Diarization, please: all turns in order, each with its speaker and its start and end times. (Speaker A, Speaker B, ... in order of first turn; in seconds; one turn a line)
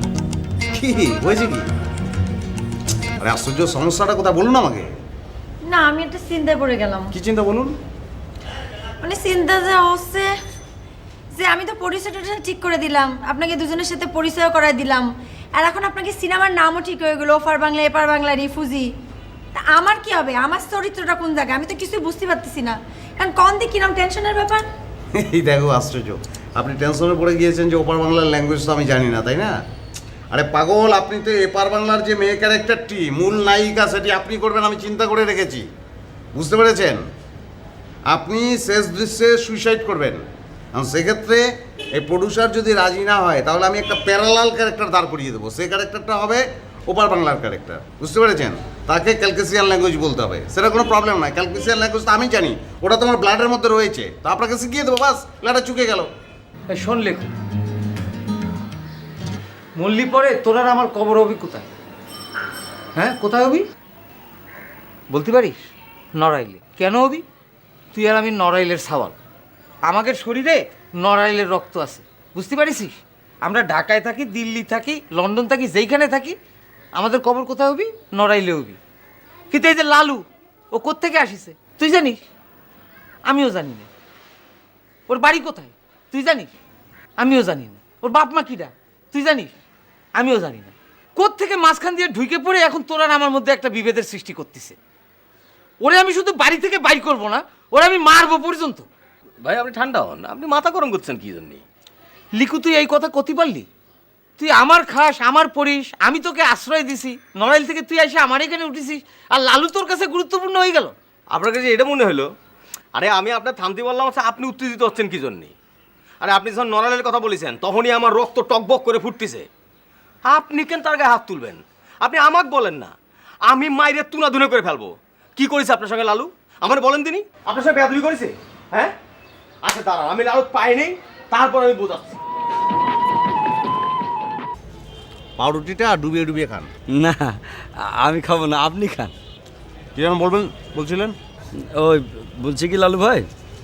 Speaker A: 0.7-1.6
Speaker A: 3.2-4.9
Speaker B: 5.7-7.1
Speaker A: 7.1-7.7
Speaker B: 9.0-10.3
Speaker B: 11.3-18.9
Speaker B: 19.6-24.6
Speaker A: 25.1-29.6
Speaker A: 30.3-35.6
Speaker A: 36.3-37.0
Speaker A: 38.1-41.4
Speaker A: 42.0-56.1
Speaker C: 56.7-57.3
Speaker C: 59.8-61.7
Speaker C: 63.0-63.7
Speaker C: 65.1-67.2
Speaker C: 67.9-69.2
Speaker C: 69.8-76.4
Speaker C: 76.9-78.8
Speaker C: 79.5-82.2
Speaker C: 83.2-83.9
Speaker C: 85.1-86.5
Speaker C: 87.2-89.5
Speaker C: 90.2-94.8
Speaker C: 95.8-98.9
Speaker D: 99.4-101.6
Speaker C: 102.3-103.7
Speaker C: 104.4-111.0
Speaker D: 111.3-112.3
Speaker D: 113.0-115.5
Speaker D: 116.2-119.5
Speaker D: 120.3-128.9
Speaker D: 129.6-132.2
Speaker A: 135.4-136.7
Speaker E: 136.9-139.1
Speaker A: 139.9-141.2
Speaker E: 141.8-143.3